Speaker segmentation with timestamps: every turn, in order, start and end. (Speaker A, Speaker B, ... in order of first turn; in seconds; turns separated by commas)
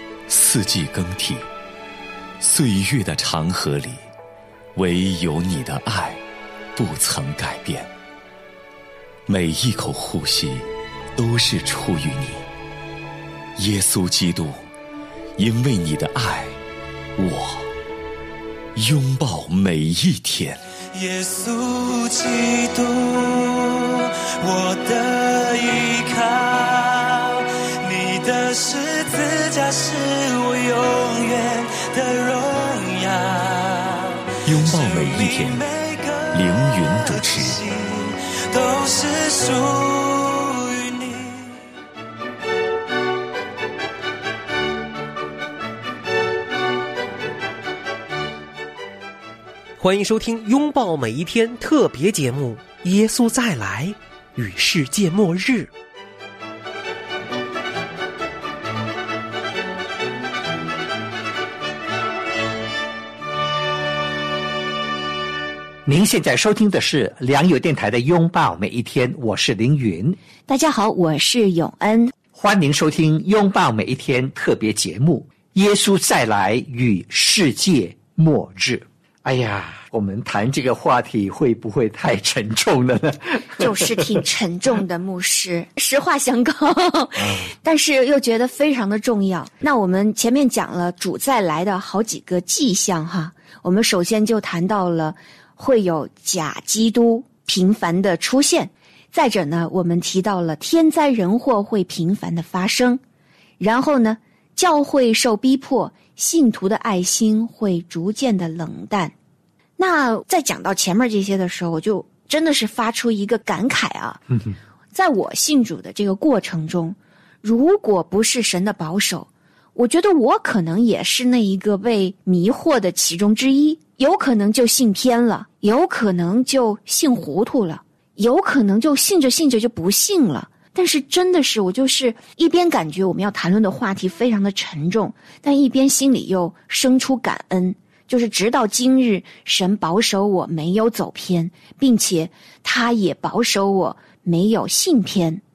Speaker A: 0.3-1.4, Speaker A: 2.4-4.0, Speaker A: 4.7-6.2, Speaker A: 6.8-7.9, Speaker A: 9.3-12.4, Speaker A: 13.6-14.6, Speaker A: 15.4-16.6, Speaker A: 17.2-17.7, Speaker A: 18.7-20.6, Speaker B: 20.9-41.6, Speaker A: 34.5-35.6, Speaker A: 36.3-37.6, Speaker C: 49.8-55.7, Speaker D: 65.8-70.2, Speaker E: 70.5-72.1, Speaker D: 72.3-84.2, Speaker E: 83.6-103.0, Speaker D: 87.2-87.5, Speaker E: 103.6-109.1, Speaker E: 109.8-114.2, Speaker E: 114.9-145.4